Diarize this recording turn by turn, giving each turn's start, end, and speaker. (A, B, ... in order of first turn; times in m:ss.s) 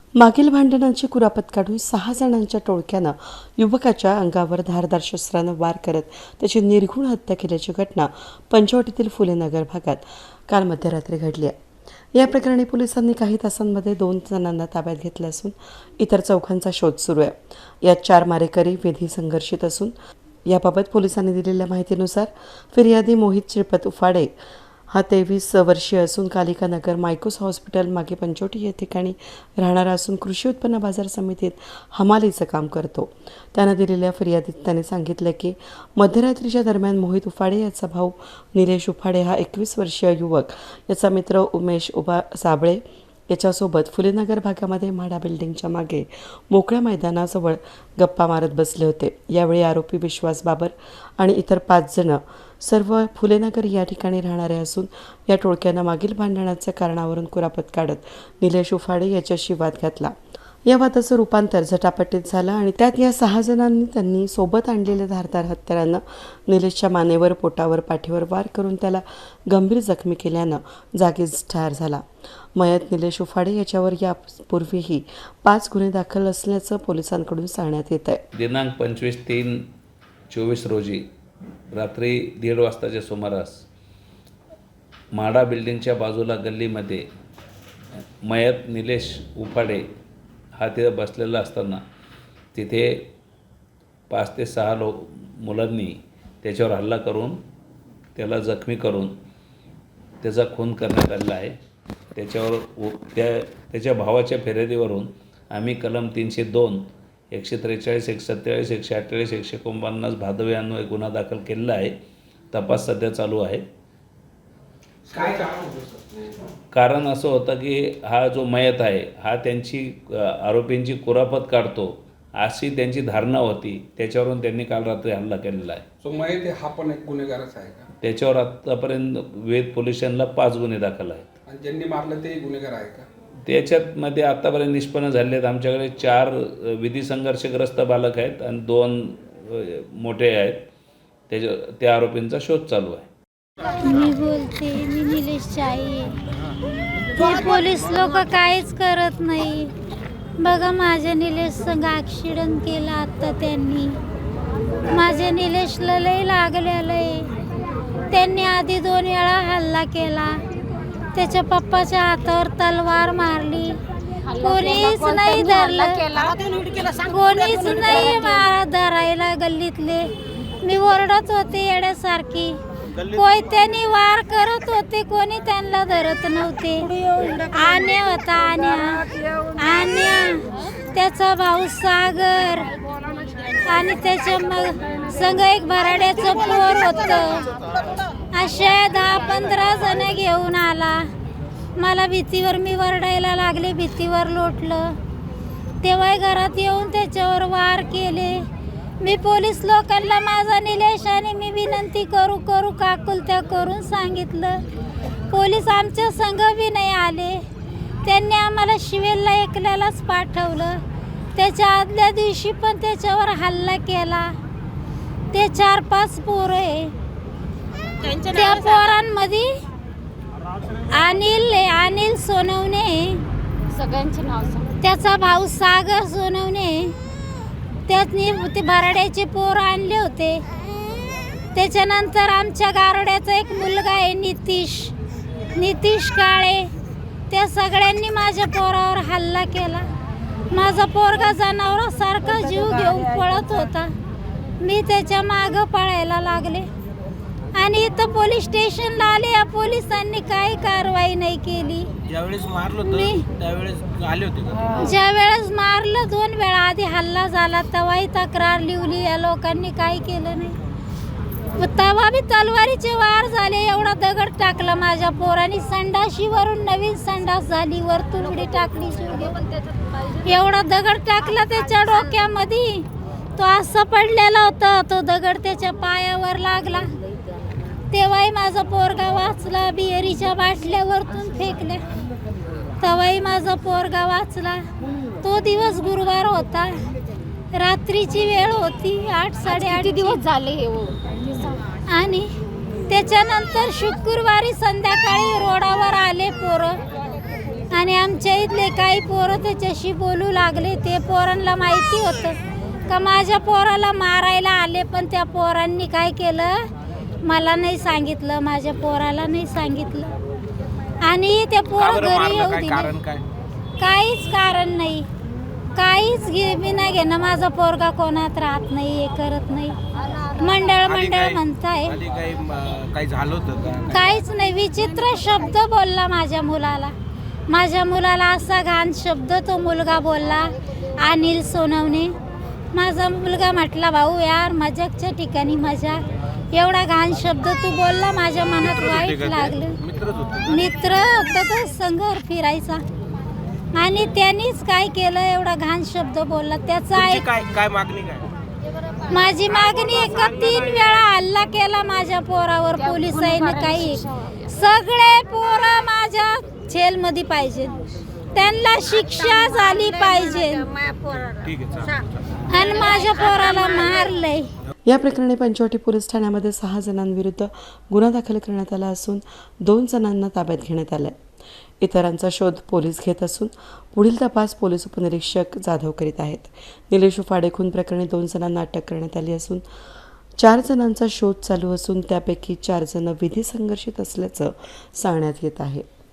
0:00.2-0:11.6 A
0:12.1-0:19.9 A
0:20.4-0:24.3 A
0:24.9-1:00.1 A
1:00.6-1:12.0 A
1:12.6-1:18.2 A
1:18.3-1:19.6 B
1:20.3-1:21.0 B
1:21.7-1:23.6 B
1:25.1-1:27.1 B
1:28.2-1:29.8 B
1:30.5-1:31.8 B
1:32.5-1:33.1 B
1:34.1-1:37.4 B
1:38.2-1:39.1 B
1:40.2-1:41.5 B
1:42.1-1:51.9 B
1:52.5-1:53.6 B
1:55.1-1:56.5 C
1:56.7-2:05.8 B
2:06.0-2:07.9 C
2:08.0-2:11.3 B
2:11.5-2:13.1 C
2:13.4-2:20.7 B
2:21.3-2:23.1 B
2:23.8-2:26.1 D
2:27.2-2:29.7 D
2:30.4-2:34.0 D
2:34.9-2:37.3 D
2:38.1-2:40.4 D
2:41.1-2:43.8 D
2:44.2-2:48.4 E
2:44.4-2:46.0 D
2:47.1-2:50.1 D
2:50.6-2:52.5 D
2:52.9-2:53.2 F
2:53.1-2:56.9 D
2:57.5-2:59.0 D
2:59.6-3:02.7 D
3:03.6-3:07.5 D
3:08.3-3:11.1 D
3:11.8-3:14.9 D
3:15.8-3:18.4 D
3:19.0-3:24.6 D
3:25.3-3:27.4 D
3:28.0-3:30.8 D
3:31.3-3:34.3 D
3:35.3-3:36.9 D
3:38.0-3:38.8 E
3:38.3-3:39.5 D
3:40.9-3:43.2 D
3:43.7-3:44.7 E
3:44.8-3:46.9 D
3:47.9-3:50.4 D
3:51.5-3:54.9 D
3:55.6-3:56.7 D
3:57.3-3:59.8 D
4:00.5-4:03.9 D
4:04.6-4:06.7 D
4:07.5-4:11.9 D
4:12.0-4:14.7 F
4:12.8-4:13.2 D
4:14.8-4:20.6 D
4:21.6-4:29.4 D
4:30.2-4:36.9 D
4:37.9-4:41.8 D
4:42.8-4:44.6 D
4:45.2-4:46.8 D
4:47.5-4:50.2 D
4:49.5-4:51.6 E
4:51.9-4:52.3 D
4:52.9-4:56.8 D
4:57.7-5:02.4 D
5:02.9-5:06.7 D
5:07.2-5:10.1 D
5:11.0-5:12.9 D
5:11.8-5:13.2 F
5:13.8-5:15.1 D
5:15.8-5:19.8 D
5:20.4-5:21.9 D
5:20.8-5:23.9 F
5:23.9-5:26.9 D
5:27.5-5:32.1 D
5:32.7-5:39.7 D
5:38.6-5:40.6 F
5:40.5-5:42.8 D
5:43.7-5:47.2 D
5:46.9-5:48.3 F
5:49.1-5:57.8 D
5:49.7-5:49.9 F
5:52.8-5:54.5 E
5:58.3-6:00.7 D
5:59.3-6:01.3 E
6:01.4-6:02.4 F
6:02.5-6:04.5 D
6:02.6-6:03.9 E
6:04.8-6:11.2 A
6:11.8-6:19.6 A
6:20.4-6:25.8 A